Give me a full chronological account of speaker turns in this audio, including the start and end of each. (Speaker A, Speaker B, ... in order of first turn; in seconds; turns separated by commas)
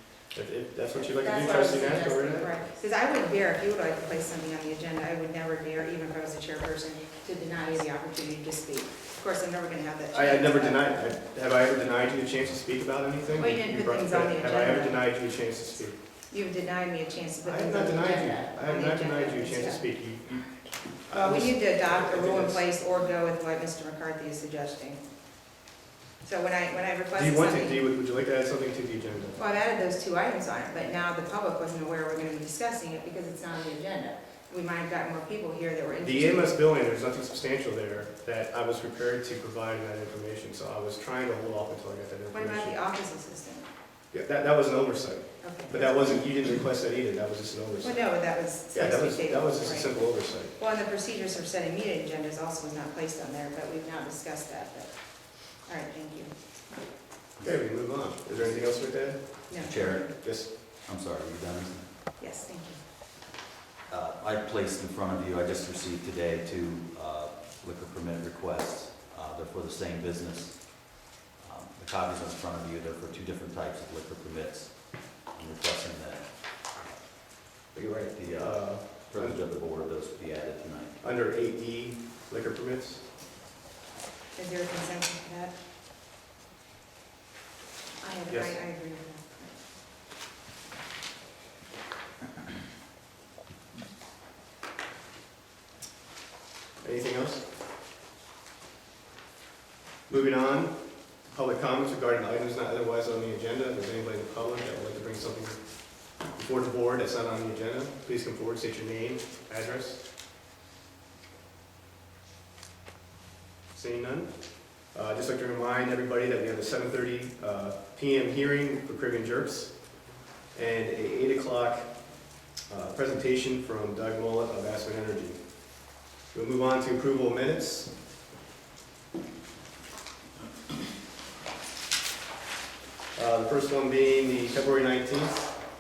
Speaker A: 0.3-2.5, Speaker B: 0.9-10.9, Speaker A: 10.1-15.9, Speaker B: 13.4-15.0, Speaker B: 16.3-19.8, Speaker A: 17.4-22.6, Speaker B: 21.1-25.0, Speaker B: 26.2-27.8, Speaker A: 27.1-29.4, Speaker B: 29.4-36.5, Speaker A: 36.0-42.8, Speaker B: 42.3-43.6, Speaker A: 44.1-50.5, Speaker B: 45.4-46.2, Speaker B: 47.8-49.9, Speaker B: 50.5-54.9, Speaker B: 55.5-56.3, Speaker A: 57.4-59.5, Speaker B: 59.5-60.1, Speaker C: 59.6-61.9, Speaker A: 60.2-60.5, Speaker B: 62.2-62.8, Speaker C: 63.9-76.3, Speaker A: 77.7-79.4, Speaker C: 78.1-81.0, Speaker A: 81.0-83.0, Speaker B: 84.4-85.5, Speaker B: 88.0-89.6, Speaker A: 88.3-88.6, Speaker A: 96.8-97.4, Speaker A: 100.1-105.6, Speaker A: 106.3-110.0, Speaker A: 113.7-114.3, Speaker A: 114.9-119.7, Speaker A: 120.5-121.9, Speaker A: 122.7-125.4, Speaker A: 126.3-127.9, Speaker A: 133.2-135.5